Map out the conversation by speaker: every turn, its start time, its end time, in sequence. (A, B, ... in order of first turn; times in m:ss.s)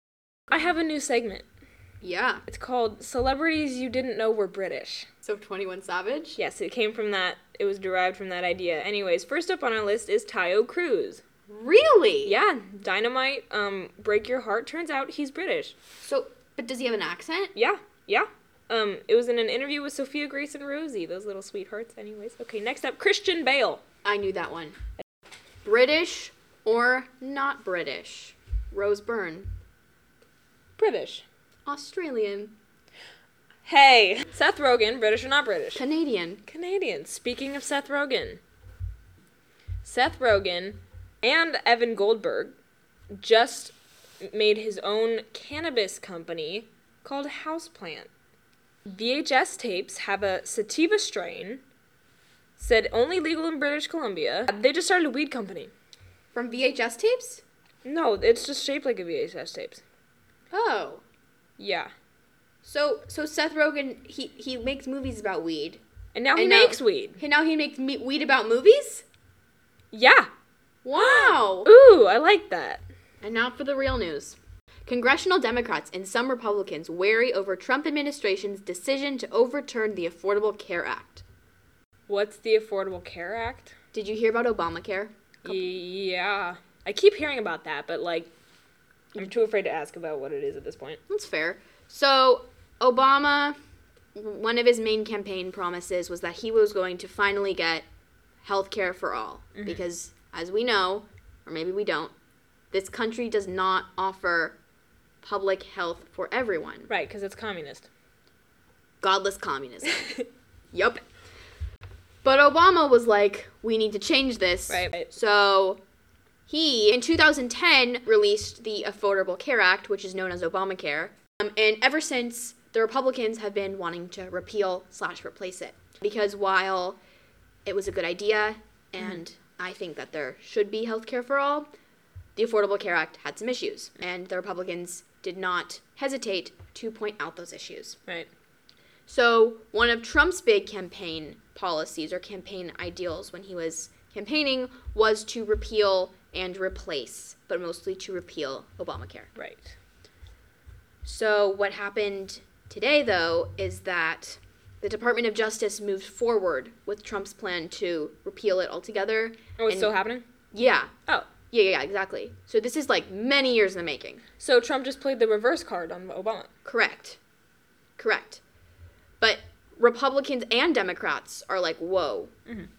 0:00.5-0:01.4 A
0:02.0-0:02.4 B
0:02.5-0:05.1 A
0:05.2-0:06.4 B
0:06.4-0:11.2 A
0:11.5-0:12.4 B
0:12.2-0:15.8 A
0:16.0-0:17.5 B
0:17.5-0:23.8 A
0:24.0-0:24.8 B
0:25.6-0:29.5 B
0:30.8-0:31.2 A
0:31.7-0:32.6 B
0:33.6-0:35.8 A
0:35.8-0:36.4 B
0:36.5-0:38.4 A
0:39.8-0:42.6 A
0:43.1-0:48.1 A
0:48.9-0:51.6 A
0:52.6-0:55.7 A
0:56.3-0:57.4 B
0:57.8-0:59.8 A
1:00.5-1:01.0 B
1:01.6-1:01.9 A
1:02.6-1:05.8 B
1:06.2-1:07.2 A
1:06.4-1:09.1 B
1:09.9-1:10.3 A
1:10.8-1:11.7 B
1:11.0-1:12.8 A
1:13.2-1:21.2 B
1:22.1-1:23.7 A
1:23.9-1:25.7 B
1:25.4-1:28.3 A
1:29.2-1:31.0 A
1:31.1-1:33.6 B
1:34.2-1:37.8 B
1:38.4-1:42.1 B
1:42.7-1:44.6 B
1:45.2-1:46.9 B
1:46.9-1:47.9 A
1:49.0-1:50.1 B
1:50.7-1:51.0 B
1:52.2-1:55.8 B
1:54.7-1:55.1 A
1:56.5-2:07.0 B
2:07.7-2:11.7 B
2:12.4-2:18.0 B
2:19.1-2:29.3 B
2:29.4-2:29.8 A
2:31.0-2:39.9 B
2:39.6-2:40.2 A
2:40.5-2:40.9 B
2:41.5-2:44.2 B
2:44.4-2:46.5 A
2:46.6-2:47.2 B
2:48.0-2:48.4 B
2:49.2-2:52.3 B